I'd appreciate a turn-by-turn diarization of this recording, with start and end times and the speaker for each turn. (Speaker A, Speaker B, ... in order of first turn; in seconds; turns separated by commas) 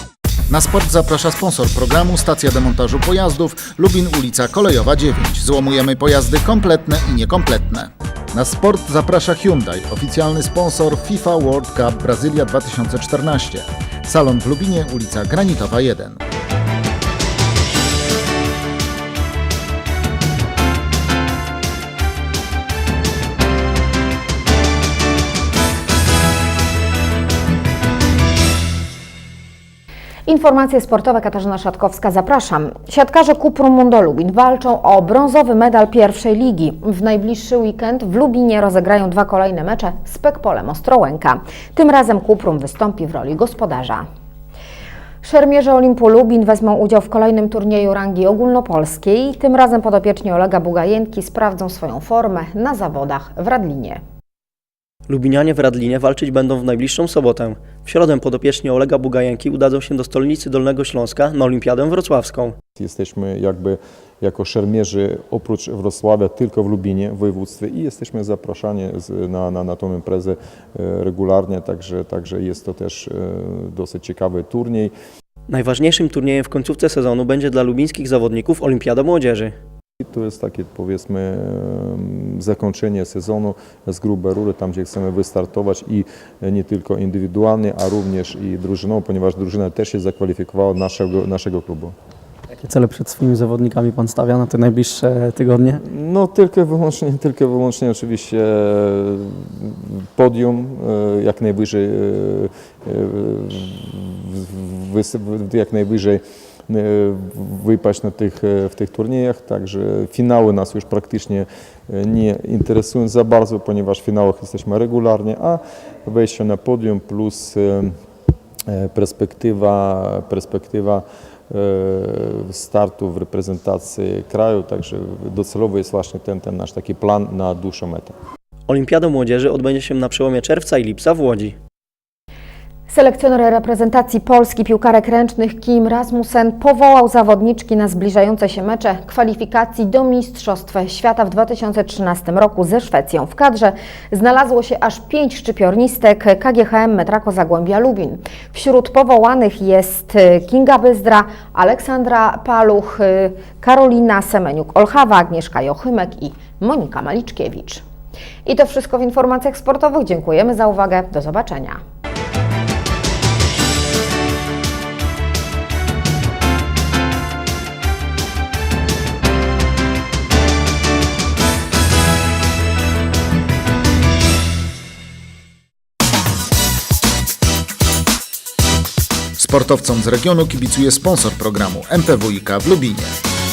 Speaker A: 0.5-16.2, Speaker B: 30.3-44.1, Speaker B: 45.2-54.0, Speaker C: 55.1-62.5, Speaker D: 62.8-74.9, Speaker C: 75.5-79.5, Speaker D: 80.0-91.9, Speaker E: 92.5-95.8, Speaker D: 95.8-117.9, Speaker D: 118.7-128.1, Speaker C: 128.7-131.6, Speaker B: 132.9-157.8, Speaker B: 158.4-161.8, Speaker A: 179.4-183.2